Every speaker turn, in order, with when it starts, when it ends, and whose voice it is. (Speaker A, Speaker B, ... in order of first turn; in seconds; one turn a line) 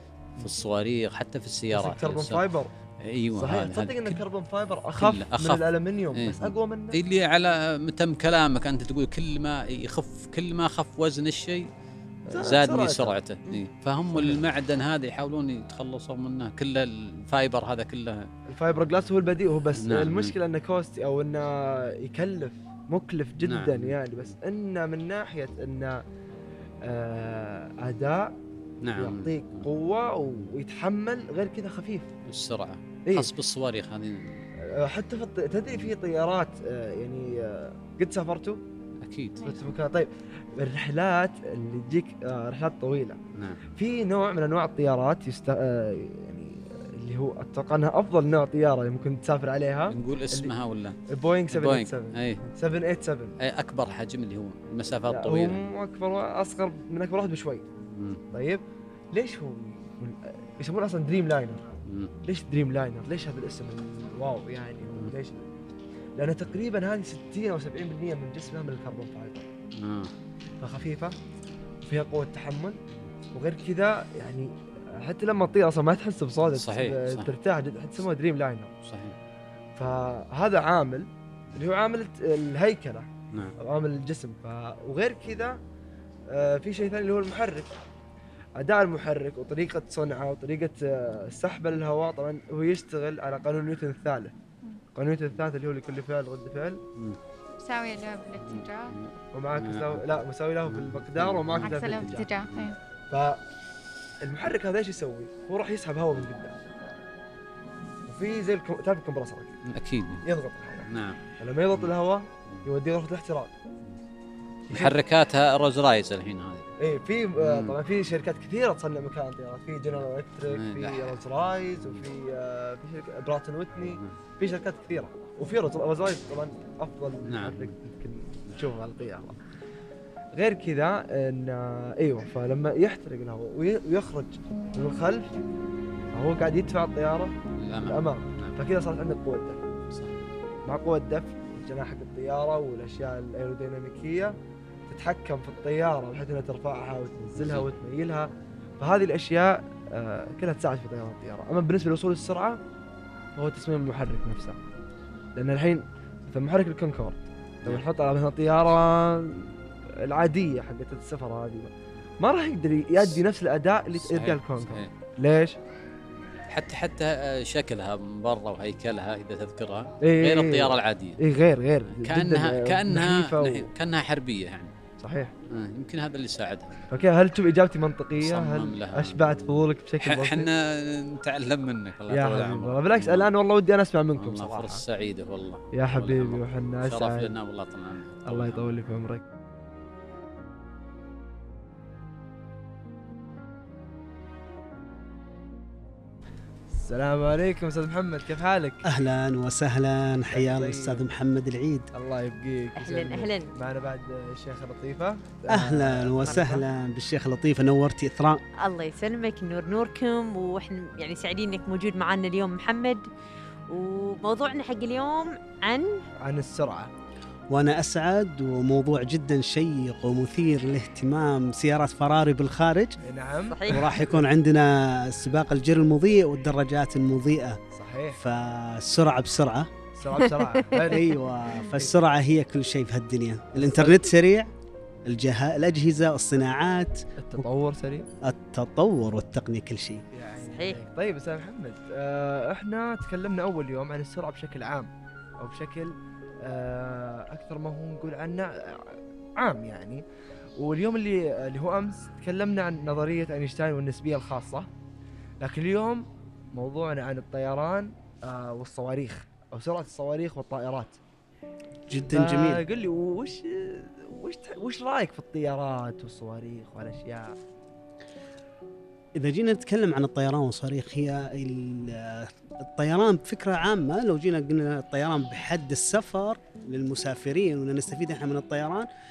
Speaker A: 0.4-2.4
Speaker B: 1.7-2.7
Speaker A: 3.0-4.2
Speaker B: 3.4-7.0
Speaker A: 5.0-11.7
Speaker B: 12.3-13.6
Speaker A: 12.3-18.3
Speaker B: 14.1-14.4
Speaker B: 18.5-26.0
Speaker A: 19.8-20.4
Speaker A: 23.4-24.0
Speaker B: 26.8-28.4
Speaker A: 28.8-29.7
Speaker B: 29.0-32.1
Speaker A: 32.3-34.5
Speaker B: 34.6-38.6
Speaker A: 39.0-39.5
Speaker B: 39.5-43.2
Speaker A: 43.3-43.6
Speaker B: 43.8-50.5
Speaker A: 49.9-52.4
Speaker B: 51.1-53.4
Speaker A: 53.4-55.6
Speaker B: 55.1-57.6
Speaker A: 57.8-58.2
Speaker B: 58.3-61.6
Speaker A: 61.9-62.1
Speaker B: 62.2-65.5
Speaker B: 66.2-69.5
Speaker A: 69.7-70.1
Speaker B: 70.6-71.2
Speaker B: 71.8-72.8
Speaker B: 73.3-78.7
Speaker A: 76.5-77.3
Speaker A: 78.8-79.2
Speaker B: 79.8-83.1
Speaker B: 83.6-85.6
Speaker B: 86.3-87.8
Speaker B: 88.6-94.3
Speaker B: 95.0-96.8
Speaker C: 97.6-99.0
Speaker A: 98.4-102.7
Speaker B: 99.3-102.3
Speaker C: 101.6-102.8
Speaker B: 103.1-103.4
Speaker B: 104.2-106.6
Speaker B: 108.1-109.6
Speaker A: 109.6-110.2
Speaker B: 110.2-110.9
Speaker A: 110.9-111.2
Speaker B: 111.4-113.5
Speaker A: 114.7-116.7
Speaker B: 114.7-115.0
Speaker B: 116.8-129.4
Speaker A: 117.4-117.8
Speaker A: 120.5-121.2
Speaker A: 121.8-122.1
Speaker A: 123.8-124.2
Speaker A: 127.2-127.8
Speaker B: 130.3-135.3
Speaker B: 136.1-137.3
Speaker A: 137.6-138.6
Speaker B: 137.9-139.6
Speaker A: 139.9-140.2
Speaker B: 140.7-144.4
Speaker B: 144.9-152.6
Speaker A: 147.3-147.7
Speaker B: 153.4-154.6
Speaker B: 155.4-159.4
Speaker B: 159.9-165.6
Speaker A: 163.9-164.9
Speaker A: 166.5-171.2
Speaker B: 170.0-173.7
Speaker A: 171.9-174.7
Speaker B: 175.0-175.3
Speaker A: 175.5-177.1
Speaker B: 176.9-180.5
Speaker A: 178.2-183.3
Speaker B: 182.1-184.8
Speaker A: 184.2-188.7
Speaker B: 185.7-187.3
Speaker B: 188.3-189.2
Speaker B: 196.7-198.8
Speaker D: 198.8-201.9
Speaker B: 200.3-201.0
Speaker B: 201.9-206.6
Speaker E: 202.8-203.5
Speaker D: 205.5-208.4
Speaker E: 208.6-213.1
Speaker E: 213.7-216.1
Speaker B: 216.2-216.9
Speaker D: 217.5-223.0
Speaker B: 223.0-224.2
Speaker E: 223.5-224.0
Speaker D: 223.7-227.6
Speaker B: 227.7-228.2
Speaker D: 228.2-229.7
Speaker B: 229.9-231.1
Speaker E: 230.3-231.0
Speaker D: 230.9-234.5
Speaker B: 233.6-234.0
Speaker D: 235.1-237.4
Speaker B: 237.2-238.1
Speaker D: 238.2-240.0
Speaker B: 240.1-250.0
Speaker E: 240.6-240.8
Speaker B: 250.6-254.7
Speaker B: 255.4-261.0
Speaker D: 261.9-262.6
Speaker B: 262.1-267.4
Speaker D: 269.2-278.9